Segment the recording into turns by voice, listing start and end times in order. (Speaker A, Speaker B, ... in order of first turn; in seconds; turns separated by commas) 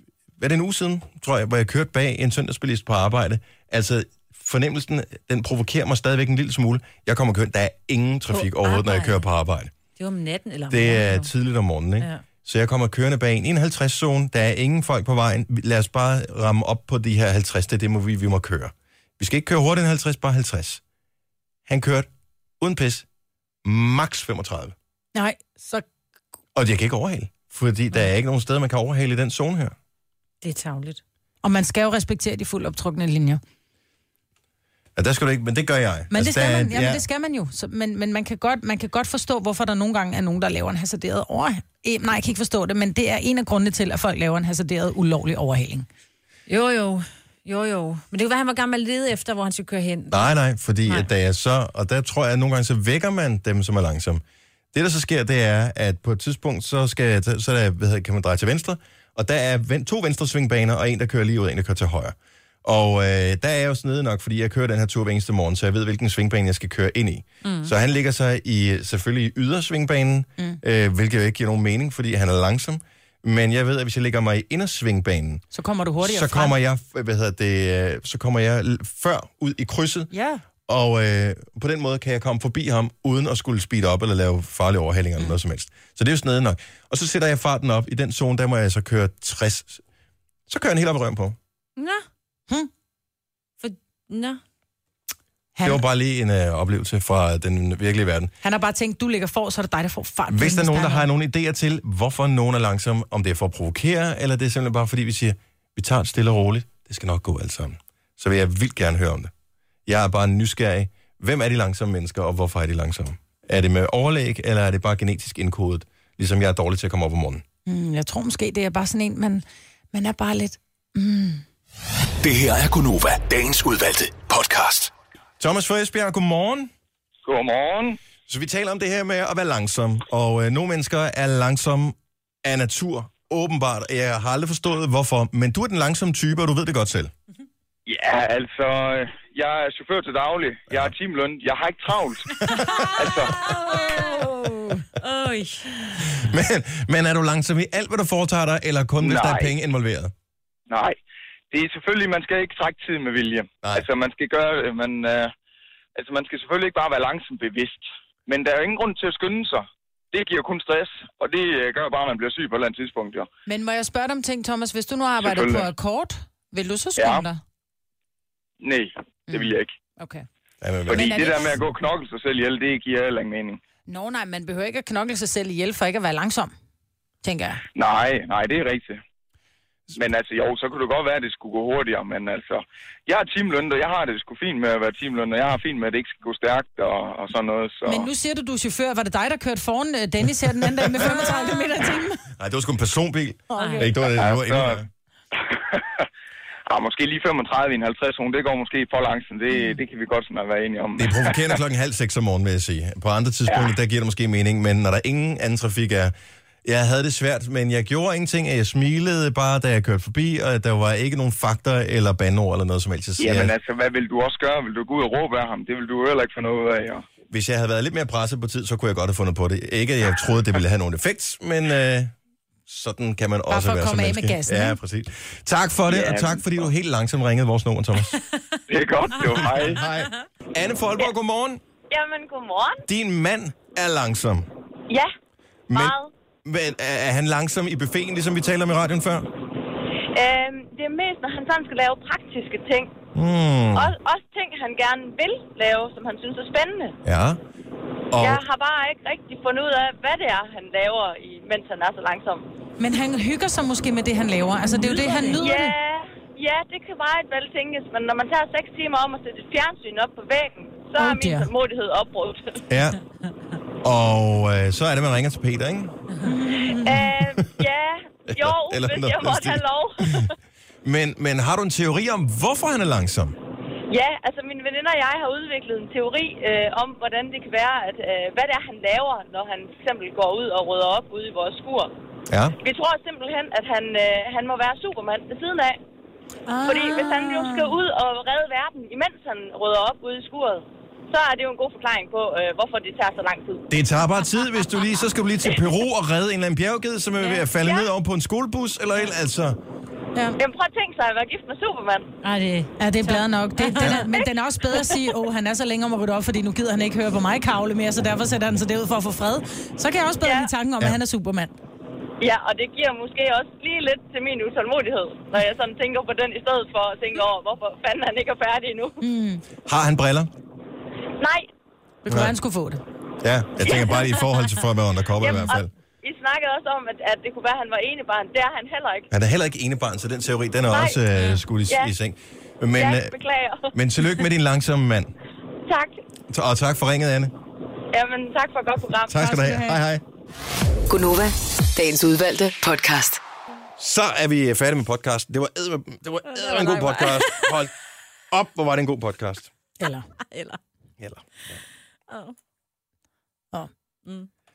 Speaker A: 0.4-9.7, Speaker B: 8.3-9.2, Speaker B: 10.0-11.3, Speaker A: 10.7-20.8, Speaker A: 21.7-22.1, Speaker A: 22.6-23.1, Speaker A: 23.6-24.8, Speaker C: 25.1-25.9, Speaker A: 26.6-29.8, Speaker B: 30.4-31.0, Speaker C: 31.4-33.4, Speaker A: 35.0-37.0, Speaker C: 36.1-45.9, Speaker B: 46.5-50.3, Speaker A: 50.1-75.4, Speaker B: 50.9-51.1, Speaker B: 67.4-67.7, Speaker C: 75.5-76.5, Speaker A: 76.0-80.1, Speaker C: 80.1-80.4, Speaker A: 80.7-89.8, Speaker A: 90.5-91.4, Speaker B: 91.8-92.0, Speaker B: 93.6-94.4, Speaker C: 95.6-95.8, Speaker A: 95.6-98.3, Speaker C: 98.4-101.1, Speaker A: 100.3-109.3, Speaker A: 109.9-117.4, Speaker C: 117.7-121.4, Speaker D: 122.2-124.9, Speaker A: 125.4-126.7, Speaker E: 127.2-128.0, Speaker A: 128.3-137.1, Speaker E: 137.9-142.3, Speaker B: 142.4-146.2, Speaker E: 143.0-143.4, Speaker A: 146.0-150.1, Speaker E: 149.0-149.5, Speaker E: 150.7-151.0, Speaker E: 151.5-155.3, Speaker E: 156.0-163.3, Speaker C: 163.5-167.4, Speaker E: 165.2-165.7, Speaker E: 167.0-167.3, Speaker E: 168.6-169.7, Speaker C: 169.3-170.3, Speaker A: 170.6-171.3, Speaker C: 170.9-171.6, Speaker E: 170.9-173.6, Speaker C: 173.9-176.5, Speaker C: 177.2-177.6, Speaker E: 177.8-179.0, Speaker E: 179.9-188.1, Speaker C: 187.8-192.2, Speaker A: 190.8-191.2, Speaker A: 192.4-194.9, Speaker C: 193.5-194.0, Speaker B: 193.6-193.9, Speaker E: 194.1-194.8, Speaker E: 195.7-196.0, Speaker E: 196.7-201.6, Speaker A: 201.0-206.1, Speaker E: 203.5-203.8, Speaker A: 206.7-213.5, Speaker E: 213.2-217.1, Speaker A: 217.3-222.1, Speaker A: 222.7-228.2, Speaker C: 223.5-224.8, Speaker E: 225.9-226.7, Speaker E: 228.7-229.8, Speaker A: 229.4-231.6, Speaker B: 229.8-230.2, Speaker F: 231.9-232.8, Speaker A: 232.9-234.5, Speaker A: 235.7-239.3, Speaker F: 235.7-236.1, Speaker F: 240.1-242.9, Speaker A: 243.2-243.9, Speaker F: 243.8-247.0, Speaker A: 247.0-247.4, Speaker A: 248.1-248.4, Speaker F: 248.2-252.5, Speaker C: 252.8-255.7, Speaker B: 254.7-255.4, Speaker F: 255.4-262.6, Speaker C: 261.0-261.5, Speaker A: 262.7-263.0, Speaker A: 263.8-265.9, Speaker C: 266.2-267.0, Speaker F: 266.8-270.3, Speaker A: 267.2-267.5, Speaker A: 268.3-270.3, Speaker A: 270.8-273.4, Speaker F: 273.9-281.9, Speaker A: 282.3-282.6, Speaker F: 282.6-285.8, Speaker C: 286.5-287.7, Speaker F: 286.6-293.6, Speaker A: 293.7-299.6, Speaker F: 297.6-297.9, Speaker F: 300.4-302.1, Speaker B: 302.2-304.1, Speaker C: 302.8-311.5, Speaker F: 303.8-305.0, Speaker F: 310.2-310.5, Speaker F: 312.2-319.0, Speaker C: 319.0-319.4, Speaker A: 319.7-320.3, Speaker F: 321.2-321.5, Speaker C: 322.1-322.8, Speaker A: 322.1-322.3, Speaker A: 323.2-325.7, Speaker F: 323.6-324.0, Speaker F: 325.2-329.1, Speaker A: 329.1-333.2, Speaker F: 330.7-331.0, Speaker F: 331.7-331.9, Speaker F: 332.8-333.7, Speaker A: 333.7-335.1, Speaker F: 335.7-336.0, Speaker A: 336.3-337.3, Speaker F: 337.9-339.3, Speaker A: 339.1-340.0, Speaker C: 339.2-339.8, Speaker G: 340.9-343.2, Speaker A: 343.8-347.7, Speaker B: 346.3-347.5, Speaker A: 348.3-349.5, Speaker C: 349.8-350.1, Speaker B: 350.3-350.6, Speaker A: 351.0-351.6, Speaker B: 352.1-352.4